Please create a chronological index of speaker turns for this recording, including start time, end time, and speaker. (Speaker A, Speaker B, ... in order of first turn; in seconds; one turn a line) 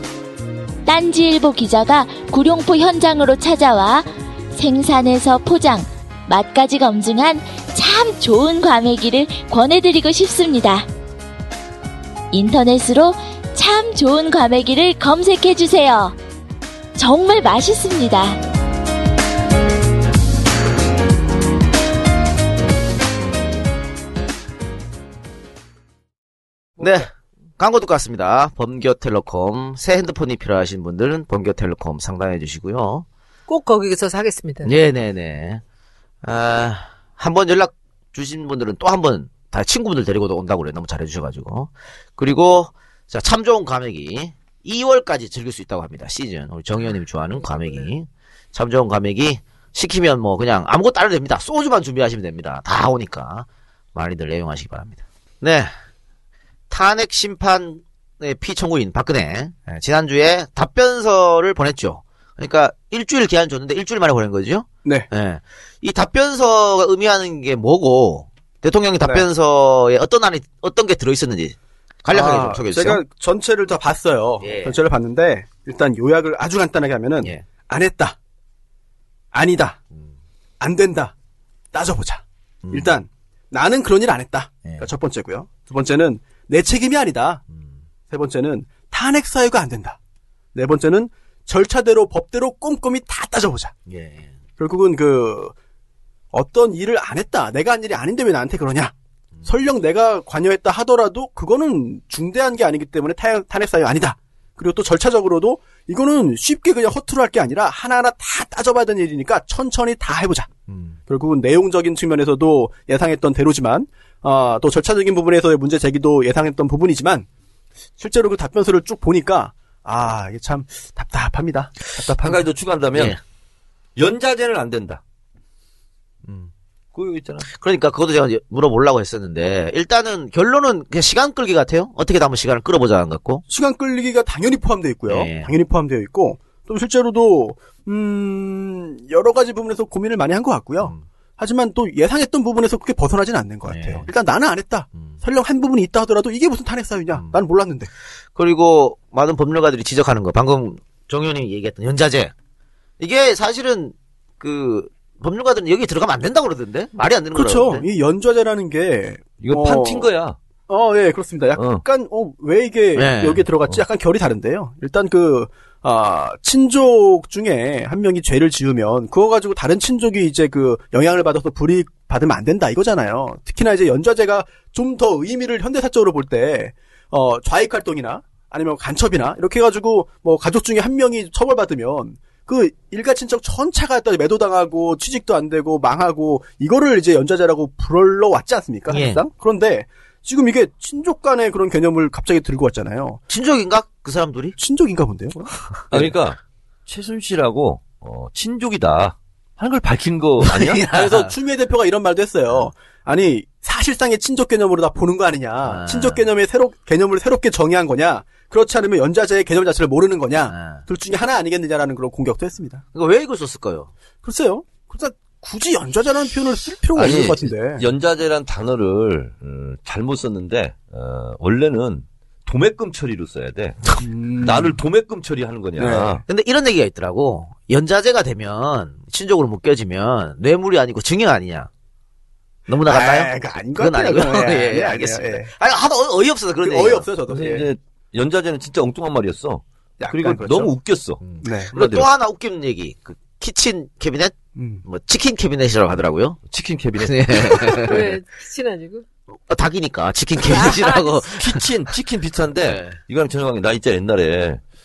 Speaker A: 0.8-10.8
Speaker A: 12.3-16.1
Speaker A: 16.9-18.4
Speaker B: 26.8-33.0
Speaker C: 33.5-34.7
Speaker B: 34.6-35.6
Speaker B: 36.2-55.7
Speaker C: 47.4-47.9
Speaker B: 56.7-73.0
Speaker D: 72.1-78.2
Speaker B: 74.4-74.8
Speaker D: 79.3-79.8
Speaker D: 80.6-81.1
Speaker D: 81.7-87.4
Speaker B: 82.7-82.9
Speaker B: 87.5-87.8
Speaker D: 88.1-90.0
Speaker D: 90.5-93.7
Speaker B: 93.8-94.4
Speaker D: 94.6-95.5
Speaker D: 96.3-98.9
Speaker D: 99.4-110.5
Speaker B: 110.7-111.0
Speaker D: 111.1-117.2
Speaker D: 118.0-122.4
Speaker E: 122.2-123.2
Speaker B: 122.9-123.2
Speaker E: 124.0-125.0
Speaker B: 126.2-126.5
Speaker E: 126.9-127.5
Speaker B: 127.5-133.4
Speaker D: 133.5-147.9
Speaker B: 135.1-135.5
Speaker B: 143.7-144.1
Speaker B: 148.3-152.3
Speaker B: 153.0-157.9
Speaker D: 157.3-160.1
Speaker E: 159.4-160.4
Speaker D: 160.7-193.2
Speaker E: 161.6-161.8
Speaker B: 162.9-163.4
Speaker B: 188.9-189.2
Speaker B: 193.3-194.6
Speaker D: 194.6-195.5
Speaker B: 195.7-196.0
Speaker E: 195.9-200.8
Speaker B: 200.4-201.3
Speaker D: 200.9-212.8
Speaker B: 205.6-206.2
Speaker B: 210.5-210.8
Speaker B: 212.9-213.9
Speaker D: 214.2-217.8
Speaker E: 216.9-226.2
Speaker D: 224.0-224.8
Speaker D: 225.8-226.2
Speaker B: 226.3-231.7
Speaker B: 232.7-237.1
Speaker D: 232.8-235.5
Speaker D: 236.6-237.7
Speaker E: 237.3-242.1
Speaker D: 240.0-240.7
Speaker B: 241.2-246.4
Speaker D: 241.4-241.7
Speaker D: 244.5-244.8
Speaker E: 246.5-247.8
Speaker B: 247.0-248.1
Speaker C: 247.8-249.0
Speaker B: 249.5-251.6
Speaker C: 250.5-251.2
Speaker E: 251.4-254.6
Speaker B: 252.6-253.0